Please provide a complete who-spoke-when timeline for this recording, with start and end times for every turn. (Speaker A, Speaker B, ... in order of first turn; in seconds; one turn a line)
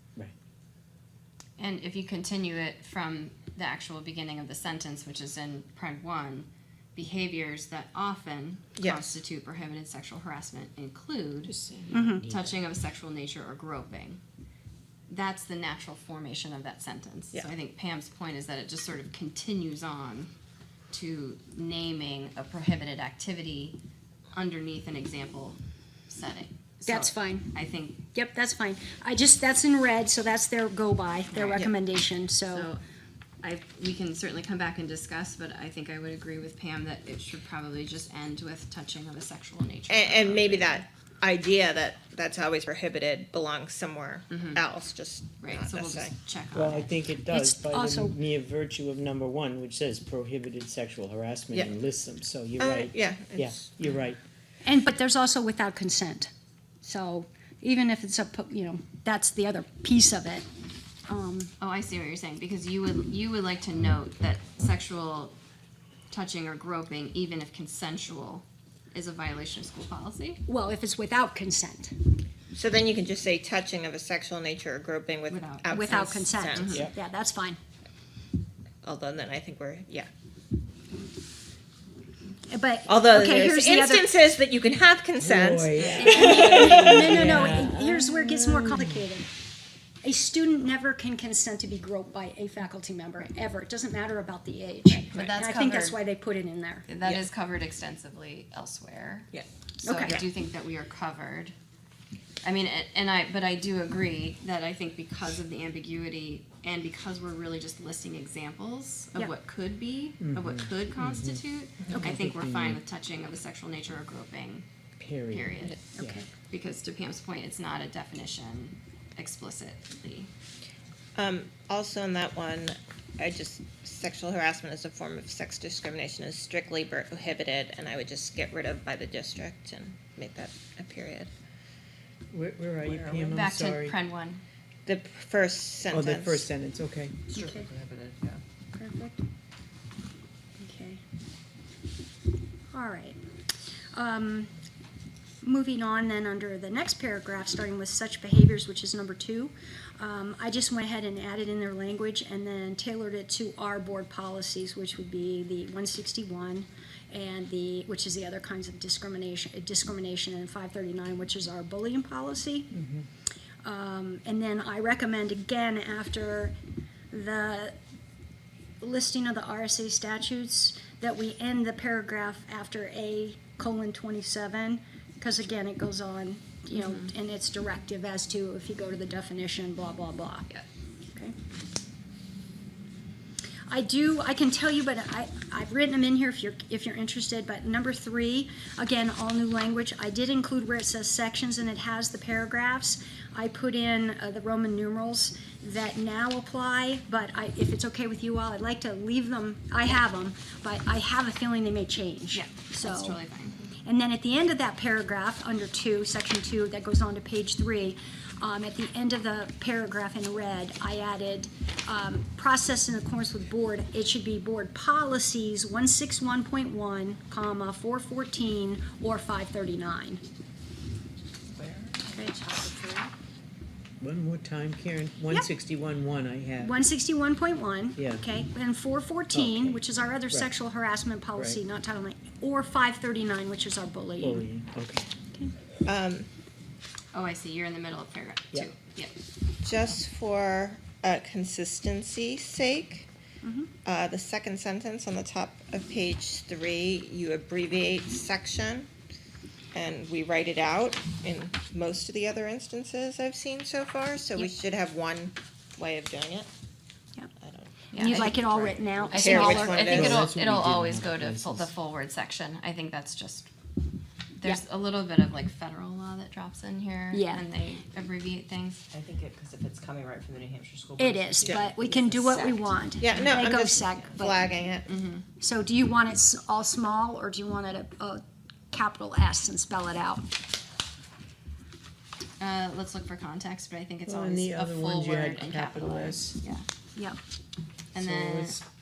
Speaker A: 1.6-11.5
Speaker B: 8.8-9.2
Speaker C: 11.5-12.6
Speaker D: 11.9-12.2
Speaker A: 12.3-14.2
Speaker A: 15.1-20.3
Speaker A: 20.9-23.8
Speaker A: 24.3-25.6
Speaker A: 26.1-28.0
Speaker D: 26.9-27.5
Speaker D: 28.1-32.7
Speaker A: 31.3-31.6
Speaker A: 32.5-32.8
Speaker A: 33.4-40.9
Speaker B: 39.9-46.1
Speaker A: 44.3-44.6
Speaker A: 45.4-47.1
Speaker C: 46.5-54.2
Speaker D: 47.3-48.1
Speaker B: 52.6-53.9
Speaker D: 54.6-56.3
Speaker D: 56.8-60.5
Speaker D: 61.1-61.5
Speaker A: 61.6-65.3
Speaker A: 66.1-70.4
Speaker D: 70.5-72.0
Speaker B: 72.5-76.9
Speaker A: 75.3-76.9
Speaker D: 75.7-77.6
Speaker B: 78.8-80.1
Speaker D: 82.5-84.1
Speaker B: 82.9-87.3
Speaker C: 85.2-89.0
Speaker A: 85.8-86.3
Speaker D: 85.9-89.3
Speaker D: 90.0-96.9
Speaker A: 94.9-96.0
Speaker A: 96.9-99.3
Speaker D: 99.8-100.2
Speaker A: 99.8-101.5
Speaker A: 102.4-114.7
Speaker C: 110.2-112.8
Speaker B: 111.8-112.1
Speaker C: 115.0-116.2
Speaker A: 115.3-115.8
Speaker D: 116.0-116.3
Speaker A: 116.5-120.3
Speaker B: 121.2-131.3
Speaker C: 132.3-133.9
Speaker A: 133.2-134.4
Speaker B: 134.9-136.5
Speaker C: 135.9-137.4
Speaker E: 137.3-138.4
Speaker D: 137.3-137.7
Speaker D: 138.7-139.2
Speaker D: 140.6-141.0
Speaker D: 142.7-143.2
Speaker D: 143.9-144.5
Speaker D: 145.4-162.7
Speaker C: 162.8-163.0
Speaker D: 163.6-166.6
Speaker D: 167.1-167.8
Speaker D: 168.8-180.5
Speaker A: 176.7-177.1
Speaker D: 183.7-203.2
Speaker A: 202.3-203.7
Speaker D: 203.8-220.2
Speaker E: 221.6-223.1
Speaker D: 222.1-222.7
Speaker C: 224.0-226.8
Speaker D: 226.6-234.5
Speaker C: 228.0-228.2
Speaker C: 229.3-230.5
Speaker C: 231.4-231.6
Speaker C: 234.2-235.1
Speaker B: 235.9-236.3
Speaker A: 237.1-239.1
Speaker B: 239.6-243.1
Speaker D: 243.4-243.7
Speaker B: 243.8-248.9
Speaker B: 249.7-256.5
Speaker B: 257.4-260.3
Speaker A: 257.9-258.5
Speaker D: 257.9-260.1
Speaker A: 259.1-263.5
Speaker C: 259.9-261.7
Speaker A: 264.4-268.8
Speaker D: 267.1-267.4
Speaker E: 268.9-272.7
Speaker D: 271.0-274.4
Speaker B: 271.5-271.7
Speaker B: 273.0-274.9
Speaker A: 274.9-275.2
Speaker D: 275.4-280.3
Speaker A: 282.4-286.6
Speaker C: 284.1-286.4
Speaker A: 287.9-288.6
Speaker C: 288.0-288.6